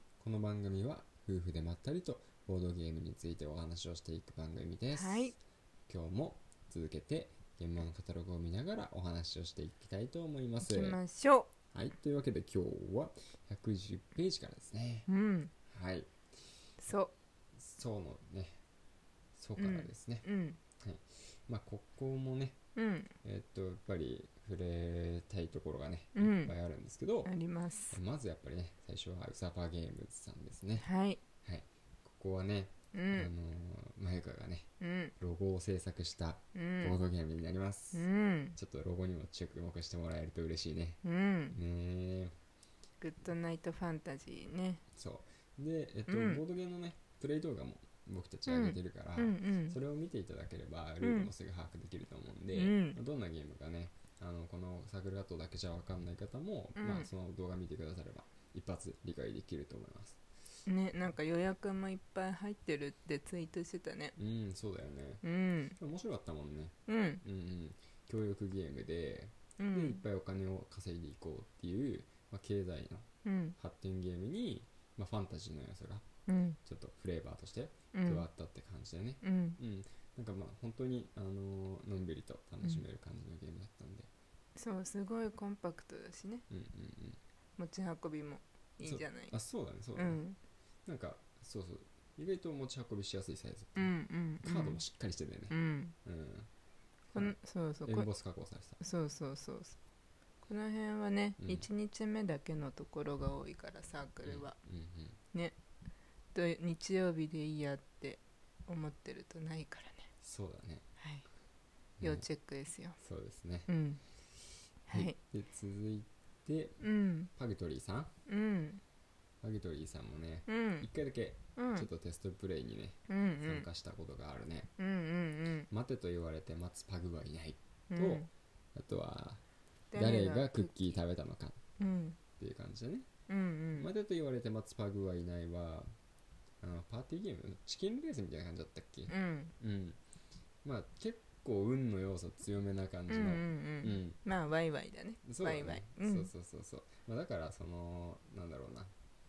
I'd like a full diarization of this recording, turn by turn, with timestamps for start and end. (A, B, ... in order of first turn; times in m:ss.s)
0:00.2-0:05.3 A
0:04.9-0:05.4 B
0:05.9-0:11.0 A
0:10.6-0:11.5 B
0:11.7-0:15.1 A
0:15.1-0:15.5 B
0:15.7-0:16.1 A
0:16.8-0:17.1 B
0:17.6-0:18.6 A
0:19.4-0:20.3 A
0:19.6-0:20.6 B
0:20.8-0:22.6 A
0:22.8-0:23.1 B
0:23.2-0:27.3 A
0:26.2-0:26.5 B
0:27.2-0:28.0 B
0:27.9-0:30.9 A
0:30.8-0:31.2 B
0:31.4-0:34.7 A
0:32.9-0:33.3 B
0:34.8-0:35.1 B
0:35.2-0:41.0 A
0:36.6-0:37.0 B
0:37.9-0:38.6 B
0:41.0-0:41.6 B
0:41.5-0:42.3 A
0:43.0-0:44.8 B
0:44.9-1:00.2 A
0:46.1-0:46.4 B
0:48.5-0:49.8 B
0:51.0-0:51.3 B
0:52.5-0:53.0 B
0:56.8-0:57.1 B
1:00.7-1:04.2 B
1:04.2-1:05.2 A
1:05.2-1:05.8 B
1:05.8-1:13.1 A
1:06.9-1:07.2 B
1:09.6-1:10.0 B
1:13.2-1:13.6 B
1:13.6-1:16.1 A
1:16.3-1:16.6 B
1:16.6-1:24.1 A
1:17.9-1:18.2 B
1:19.2-1:19.6 B
1:24.6-1:26.5 B
1:26.5-1:27.2 A
1:27.6-1:29.4 B
1:28.8-1:30.2 A
1:30.0-1:30.4 B
1:30.9-1:33.9 A
1:33.8-1:34.8 B
1:34.4-1:36.5 A
1:35.5-1:36.0 B
1:37.1-1:38.1 B
1:37.1-1:38.8 A
1:38.8-1:39.8 B
1:40.4-1:44.6 B
1:41.4-1:41.7 A
1:44.2-1:45.2 A
1:46.3-1:50.1 B
1:50.2-1:50.8 A
1:51.0-1:51.3 B
1:52.0-1:52.3 A
1:52.0-1:53.0 B
1:53.0-1:53.7 A
1:53.7-1:54.0 B
1:54.9-1:55.2 B
1:54.9-1:56.8 A
1:56.8-1:57.3 B
1:57.4-1:58.1 A
1:58.3-1:58.8 B
1:59.4-2:04.7 A
2:00.5-2:00.9 B
2:01.6-2:01.9 B
2:03.1-2:03.7 B
2:04.8-2:05.7 B
2:05.7-2:09.4 A
2:07.9-2:08.3 B
2:09.9-2:11.0 B
2:10.0-2:11.6 A
2:11.8-2:12.2 B
2:12.4-2:13.1 A
2:13.3-2:13.9 B
2:13.8-2:15.9 A
2:16.6-2:20.0 A
2:19.1-2:19.5 B
2:20.6-2:24.2 A
2:23.1-2:26.3 B
2:25.2-2:28.9 A